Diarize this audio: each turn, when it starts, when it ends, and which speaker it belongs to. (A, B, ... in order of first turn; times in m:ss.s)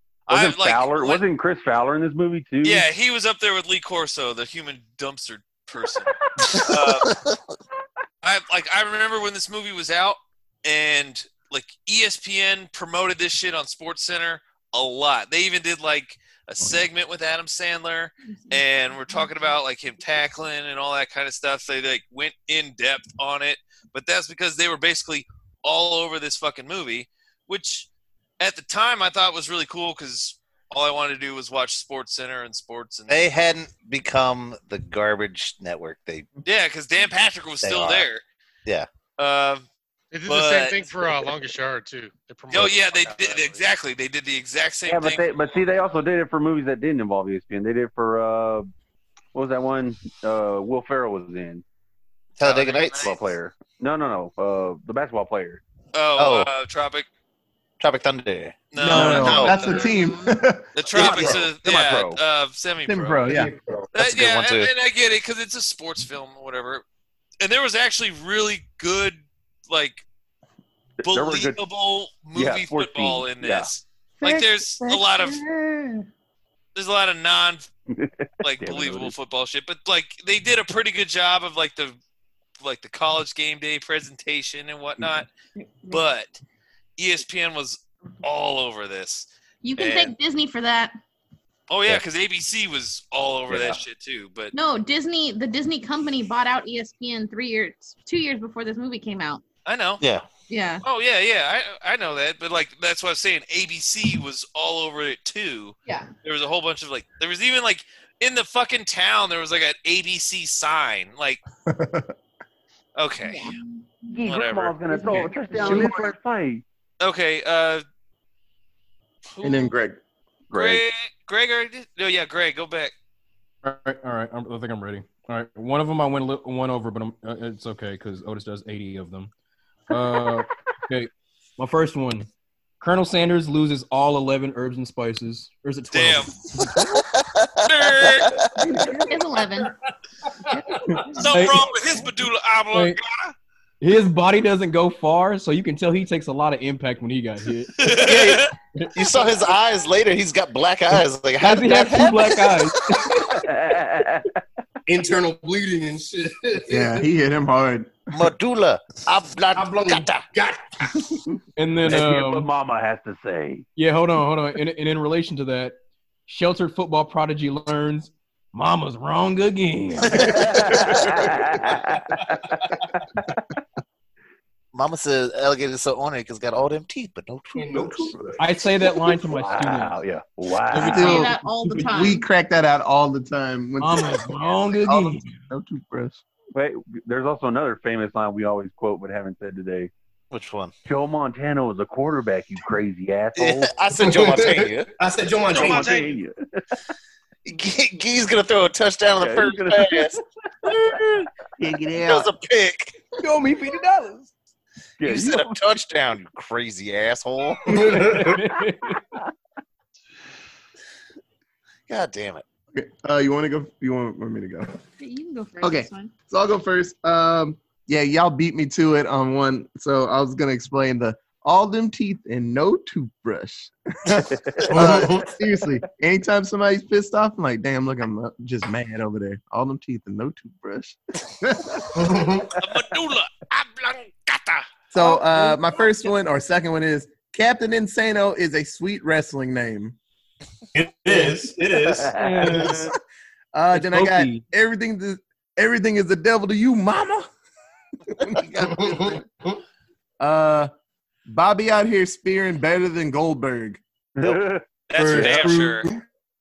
0:00.3-0:01.2 A
0:00.3-0:02.9 B
0:02.6-0:07.2 A
0:06.5-0:07.4 C
0:08.2-0:27.9 A
0:18.2-0:19.6 D
0:28.4-0:33.3 A
0:33.1-0:36.3 C
0:36.4-0:38.2 A
0:37.6-0:38.1 C
0:39.2-0:39.7 A
0:40.1-0:43.6 E
0:40.3-0:41.3 A
0:42.5-0:45.6 A
0:44.9-0:48.7 B
0:49.3-0:51.6 B
0:52.4-0:53.1 C
0:52.4-0:53.1 A
0:53.0-0:55.6 B
0:55.9-0:57.1 A
0:56.2-0:56.5 C
0:57.8-0:59.7 C
0:58.7-0:59.8 A
0:58.8-1:00.7 F
0:59.0-1:00.1 G
0:59.8-1:00.3 D
1:00.8-1:03.4 A
1:00.9-1:02.2 B
1:01.0-1:01.4 G
1:02.9-1:03.5 F
1:03.2-1:03.9 G
1:03.9-1:06.8 A
1:04.0-1:04.7 C
1:07.4-1:10.0 A
1:11.0-1:11.6 B
1:11.0-1:15.4 A
1:12.4-1:13.7 B
1:16.8-1:17.7 A
1:17.9-1:19.2 B
1:18.4-1:22.0 A
1:22.6-1:25.3 A
1:25.6-1:26.0 D
1:25.9-1:26.4 A
1:27.0-1:30.1 A
1:29.6-1:31.0 D
1:31.7-1:34.5 A
1:33.5-1:33.8 C
1:34.5-1:39.4 D
1:39.6-1:40.0 A
1:40.0-1:40.3 C
1:40.5-1:40.8 D
1:40.8-1:51.4 A
1:51.7-1:52.1 F
1:53.0-1:53.5 A
1:53.2-1:54.2 D
1:54.1-1:56.6 B
1:54.3-1:54.8 A
1:54.9-1:55.9 D
1:55.6-1:56.1 F
1:57.0-1:57.8 A
1:59.3-1:59.7 A
1:59.4-2:00.0 F
2:00.5-2:00.8 B
2:00.5-2:02.9 A
2:03.6-2:09.3 H
2:09.9-2:12.3 H
2:12.8-2:16.9 H
2:15.9-2:16.4 A
2:16.8-2:18.4 C
2:17.6-2:18.4 A
2:18.6-2:19.0 H
2:19.0-2:19.7 D
2:20.5-2:21.2 G
2:20.8-2:21.8 H
2:21.2-2:23.4 A
2:22.7-2:23.0 H
2:23.8-2:28.9 H
2:27.8-2:28.5 A
2:28.0-2:28.4 F
2:28.1-2:28.4 C
2:28.9-2:32.8 C
2:31.4-2:33.1 H
2:33.3-2:34.3 B
2:34.9-2:37.0 G
2:36.7-2:38.1 F
2:38.1-2:40.3 C
2:39.5-2:41.1 G
2:41.6-2:42.5 H
2:41.8-2:43.7 B
2:43.8-2:50.6 H
2:50.2-2:52.6 B
2:54.7-2:58.1 C
2:57.6-2:58.5 G
2:58.4-3:00.0 H
2:58.8-3:01.3 B
3:00.7-3:02.2 H
3:00.7-3:06.2 F
3:00.8-3:02.2 D
3:03.8-3:05.4 H
3:06.5-3:09.9 B
3:10.3-3:10.7 C
3:10.9-3:13.8 B
3:13.4-3:14.9 C
3:14.0-3:16.0 G
3:15.5-3:16.4 B
3:15.5-3:16.2 A
3:17.5-3:20.2 C
3:19.2-3:21.2 B
3:21.6-3:22.3 F
3:22.0-3:23.0 C
3:23.2-3:24.3 H
3:25.0-3:25.6 B
3:25.0-3:28.0 C
3:27.7-3:28.4 G
3:27.7-3:29.0 H
3:31.9-3:32.4 C
3:32.7-3:34.7 F
3:35.0-3:36.1 D
3:35.6-3:52.1 F
3:44.4-3:44.8 B
3:44.7-3:45.3 G
3:52.0-3:52.5 G
3:52.6-3:54.6 A
3:54.9-4:00.0 F
4:00.8-4:02.8 G
4:01.8-4:02.7 B
4:02.2-4:02.9 H
4:03.5-4:07.3 F
4:03.7-4:04.4 H
4:08.1-4:09.2 F
4:08.7-4:09.2 G
4:10.2-4:10.7 F
4:11.3-4:13.8 F
4:14.2-4:15.3 B
4:14.9-4:15.9 A
4:15.0-4:16.0 G